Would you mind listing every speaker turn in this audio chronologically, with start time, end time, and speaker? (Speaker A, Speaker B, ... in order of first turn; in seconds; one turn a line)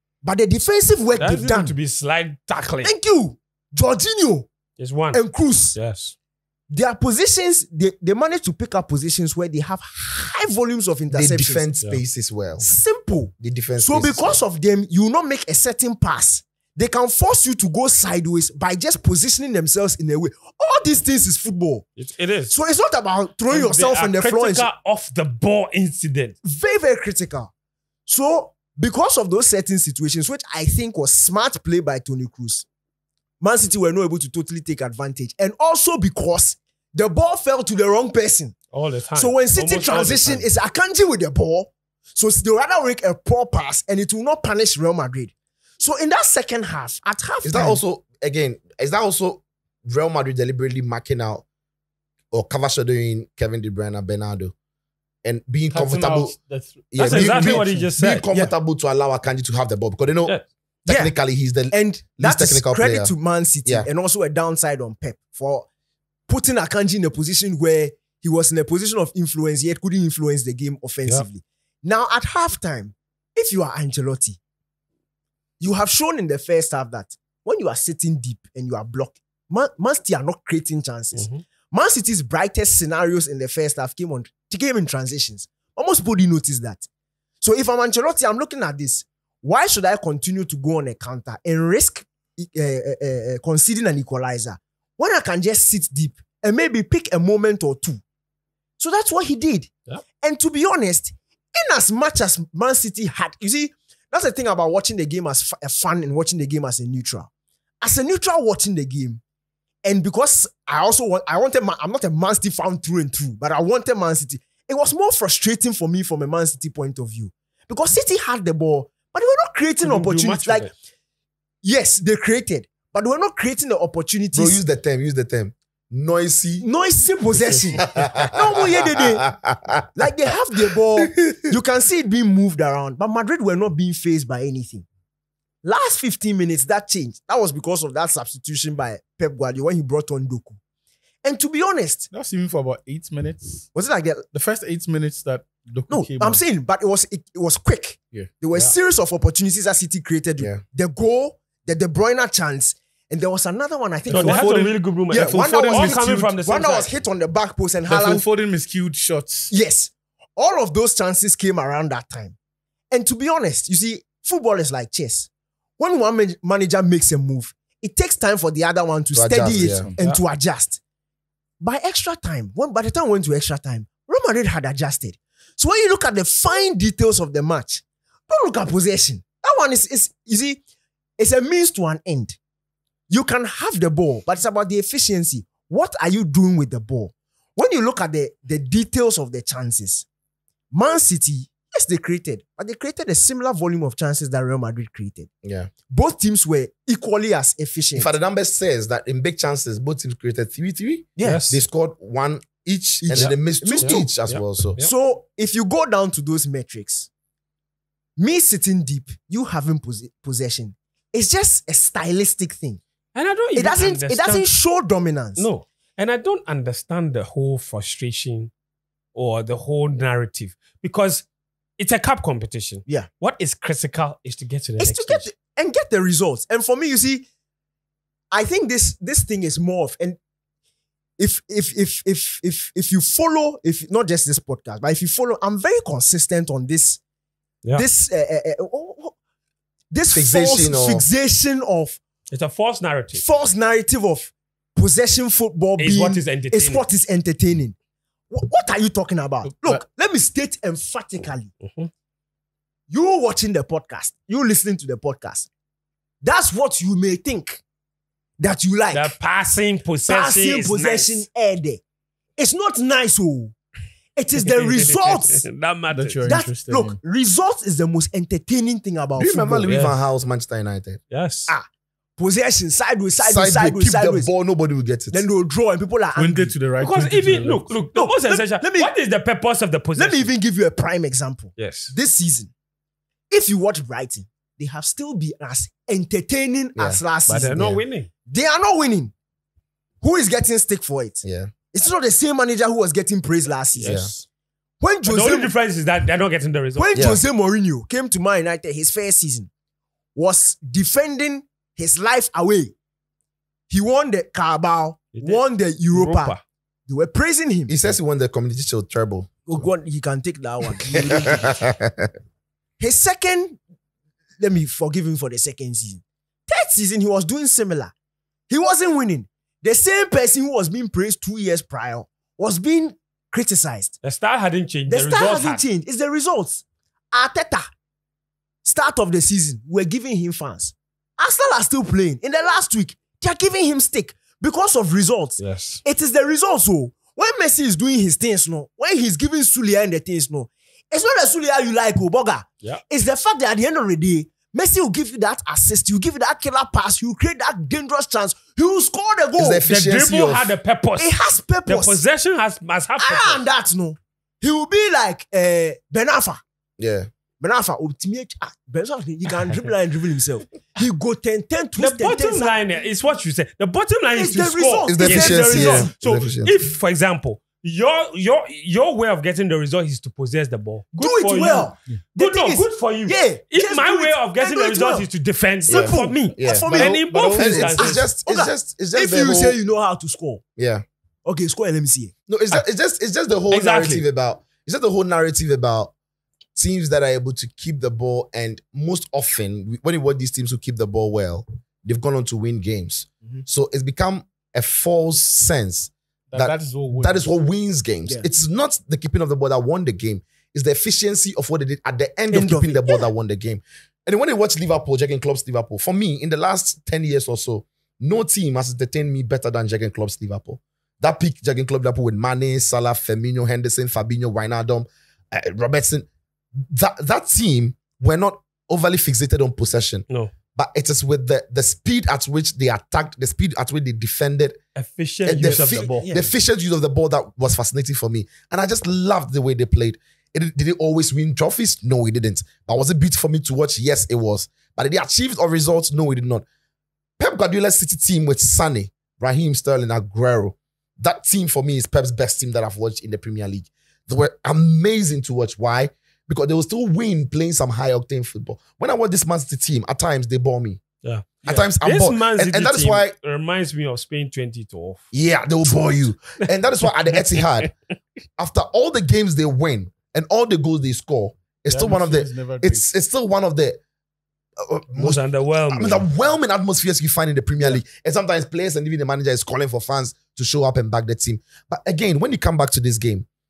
Speaker A: 0.2-1.8
Speaker B: 1.2-2.9
Speaker A: 2.8-4.5
Speaker B: 4.8-6.1
Speaker A: 5.1-5.8
Speaker A: 6.7-11.7
Speaker C: 11.1-12.7
Speaker A: 12.6-21.9
Speaker C: 13.4-14.4
Speaker B: 22.0-22.5
Speaker A: 22.5-24.7
Speaker B: 23.5-26.4
Speaker A: 26.4-27.5
Speaker A: 28.1-32.7
Speaker A: 33.4-38.6
Speaker B: 38.7-40.5
Speaker A: 39.2-47.8
Speaker C: 47.4-51.4
Speaker C: 52.3-54.5
Speaker C: 55.2-56.4
Speaker D: 55.7-57.9
Speaker C: 56.9-63.1
Speaker B: 57.0-58.3
Speaker A: 60.9-61.1
Speaker A: 61.7-65.7
Speaker A: 66.3-74.4
Speaker A: 75.6-86.9
Speaker B: 81.1-81.4
Speaker A: 87.4-98.0
Speaker A: 98.8-107.3
Speaker A: 107.8-109.2
Speaker A: 109.8-120.7
Speaker B: 119.8-120.7
Speaker A: 121.6-124.6
Speaker C: 124.3-126.7
Speaker A: 126.6-129.3
Speaker B: 127.4-127.7
Speaker C: 127.9-128.8
Speaker C: 129.3-130.3
Speaker A: 129.9-134.9
Speaker C: 131.0-131.5
Speaker A: 135.6-140.6
Speaker A: 141.2-142.1
Speaker D: 142.1-143.7
Speaker A: 143.7-144.2
Speaker D: 144.3-146.4
Speaker A: 145.9-154.5
Speaker D: 154.1-156.3
Speaker B: 154.1-156.9
Speaker A: 155.1-158.2
Speaker D: 157.9-159.5
Speaker A: 159.5-162.4
Speaker A: 162.9-170.8
Speaker C: 169.1-169.9
Speaker A: 171.6-180.6
Speaker A: 181.2-182.4
Speaker A: 183.1-190.1
Speaker A: 190.7-195.3
Speaker C: 195.4-195.7
Speaker A: 195.9-198.1
Speaker C: 198.0-204.8
Speaker B: 201.2-201.6
Speaker A: 203.0-204.1
Speaker B: 203.1-204.9
Speaker A: 204.8-207.1
Speaker A: 208.2-212.8
Speaker B: 213.2-214.5
Speaker A: 213.5-215.5
Speaker B: 215.4-218.5
Speaker B: 219.2-221.3
Speaker B: 221.8-225.3
Speaker A: 224.8-227.3
Speaker A: 228.3-230.2
Speaker A: 231.2-237.0
Speaker A: 237.8-239.2
Speaker A: 239.9-242.0
Speaker C: 240.1-241.1
Speaker B: 242.3-243.2
Speaker A: 243.1-247.8
Speaker B: 245.8-246.8
Speaker A: 248.3-251.5
Speaker D: 249.4-249.8
Speaker B: 251.6-251.9
Speaker A: 252.9-255.5
Speaker A: 256.2-257.6
Speaker A: 258.4-259.1
Speaker B: 258.9-261.2
Speaker A: 260.1-261.8
Speaker A: 262.4-263.6
Speaker A: 264.2-265.5
Speaker B: 264.5-266.2
Speaker D: 265.9-267.0
Speaker A: 266.2-269.7
Speaker C: 269.2-271.0
Speaker B: 269.7-270.0
Speaker B: 271.1-271.5
Speaker A: 271.5-274.3
Speaker C: 273.2-275.2
Speaker A: 275.1-276.6
Speaker D: 276.1-277.8
Speaker B: 276.8-280.3
Speaker A: 277.9-278.9
Speaker A: 280.0-282.5
Speaker B: 281.6-281.9
Speaker A: 283.3-287.8
Speaker C: 286.8-287.0
Speaker B: 287.3-288.1
Speaker A: 288.3-289.1
Speaker A: 290.0-294.1
Speaker C: 291.2-291.5
Speaker B: 293.8-294.2
Speaker C: 293.8-294.1
Speaker A: 294.8-295.5
Speaker B: 295.1-297.1
Speaker A: 296.8-299.5
Speaker C: 296.9-297.2
Speaker A: 300.1-302.8
Speaker A: 303.7-306.4
Speaker B: 305.1-305.4
Speaker B: 305.9-306.4
Speaker A: 306.9-307.8
Speaker C: 307.7-309.3
Speaker A: 309.5-311.6
Speaker C: 311.3-312.1
Speaker A: 312.8-313.6
Speaker A: 314.4-317.9
Speaker A: 318.5-324.0
Speaker B: 324.0-325.6
Speaker A: 324.9-327.7
Speaker A: 328.6-349.6
Speaker B: 335.4-335.8
Speaker C: 349.4-350.5
Speaker B: 349.6-353.4
Speaker A: 351.0-352.0
Speaker A: 353.0-356.4
Speaker C: 356.8-357.1
Speaker A: 357.4-362.6
Speaker B: 361.8-378.0
Speaker A: 364.1-365.9
Speaker C: 364.9-366.6
Speaker A: 370.9-375.1
Speaker C: 375.7-379.6
Speaker A: 375.7-380.4
Speaker D: 377.1-377.7
Speaker C: 380.6-380.8
Speaker A: 381.3-382.1
Speaker C: 382.3-385.9
Speaker B: 383.5-384.1
Speaker C: 386.6-416.1
Speaker D: 396.3-397.2
Speaker A: 402.3-403.1
Speaker C: 416.7-424.6
Speaker B: 424.8-426.2
Speaker C: 425.3-436.4
Speaker C: 437.2-450.8
Speaker B: 451.0-455.1
Speaker C: 451.4-453.1
Speaker C: 455.1-457.7
Speaker C: 458.4-463.8
Speaker D: 461.7-462.9
Speaker C: 464.6-473.3
Speaker B: 465.0-466.1